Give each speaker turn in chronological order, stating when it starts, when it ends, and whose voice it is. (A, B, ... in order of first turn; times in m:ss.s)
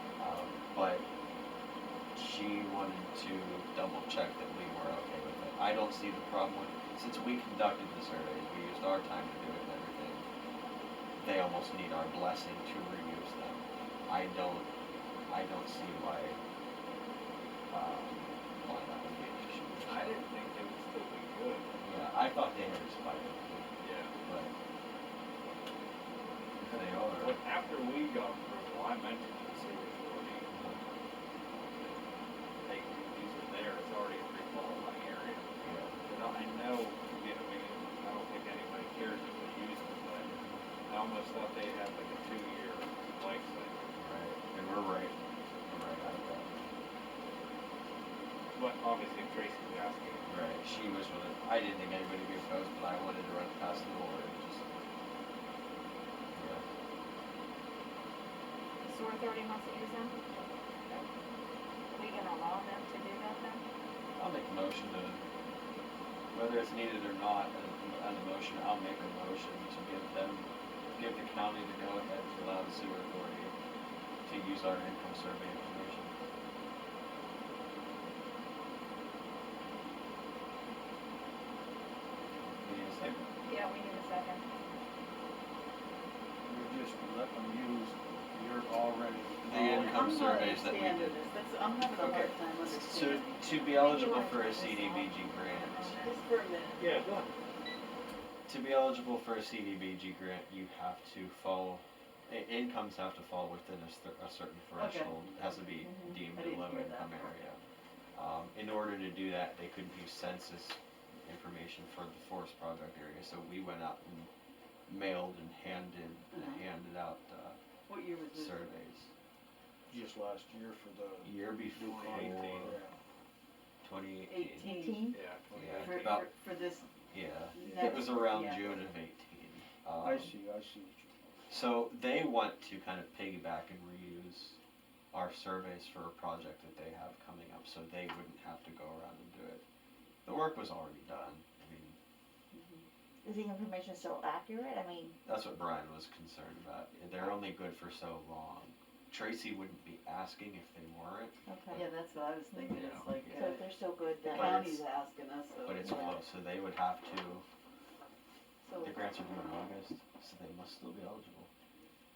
0:00.2-0:01.0 A
0:02.1-0:10.2 A
0:11.2-0:14.7 A
0:15.3-0:16.4 A
0:17.7-0:20.2 A
0:19.8-0:21.8 B
0:21.8-0:23.7 A
0:23.8-0:24.2 B
0:24.2-0:24.5 A
0:26.6-0:27.4 A
0:26.6-0:30.6 B
0:30.5-0:30.8 A
0:31.4-0:32.0 B
0:32.6-0:40.3 B
0:35.6-0:36.0 A
0:40.3-0:40.6 A
0:40.8-0:43.9 B
0:44.0-0:46.7 A
0:48.5-0:50.3 B
0:50.3-0:54.6 A
0:56.3-0:56.6 A
0:58.8-1:00.2 C
1:01.9-1:03.6 C
1:04.2-1:05.2 A
1:06.3-1:13.5 A
1:14.2-1:16.1 A
1:22.3-1:23.3 A
1:23.4-1:24.4 C
1:26.4-1:30.3 D
1:29.4-1:31.2 A
1:29.8-1:34.2 E
1:32.0-1:36.0 A
1:33.8-1:36.1 C
1:35.9-1:37.2 E
1:38.5-1:47.6 A
1:44.7-1:47.3 E
1:45.8-1:46.2 F
1:48.1-1:54.3 A
1:54.9-1:57.6 A
1:56.3-1:56.6 E
1:57.9-1:58.7 E
1:58.3-1:59.1 A
1:59.9-2:03.0 D
2:01.2-2:02.8 A
2:01.9-2:02.8 B
2:03.8-2:04.7 A
2:04.3-2:05.2 E
2:04.6-2:05.2 F
2:05.1-2:06.3 B
2:05.5-2:06.3 A
2:05.7-2:06.9 E
2:07.1-2:10.3 A
2:07.5-2:08.8 E
2:07.6-2:08.0 B
2:10.0-2:11.3 D
2:11.5-2:14.6 A
2:15.1-2:19.6 A
2:20.2-2:22.0 A
2:22.5-2:22.8 E
2:23.2-2:25.2 F
2:25.2-2:31.8 A
2:31.5-2:31.8 F
2:31.7-2:36.1 E
2:32.5-2:34.7 F
2:32.8-2:33.0 B
2:33.0-2:33.5 A
2:34.3-2:34.8 A
2:35.6-2:37.4 A
2:35.8-2:36.2 F
2:38.6-2:39.1 E
2:38.8-2:41.5 A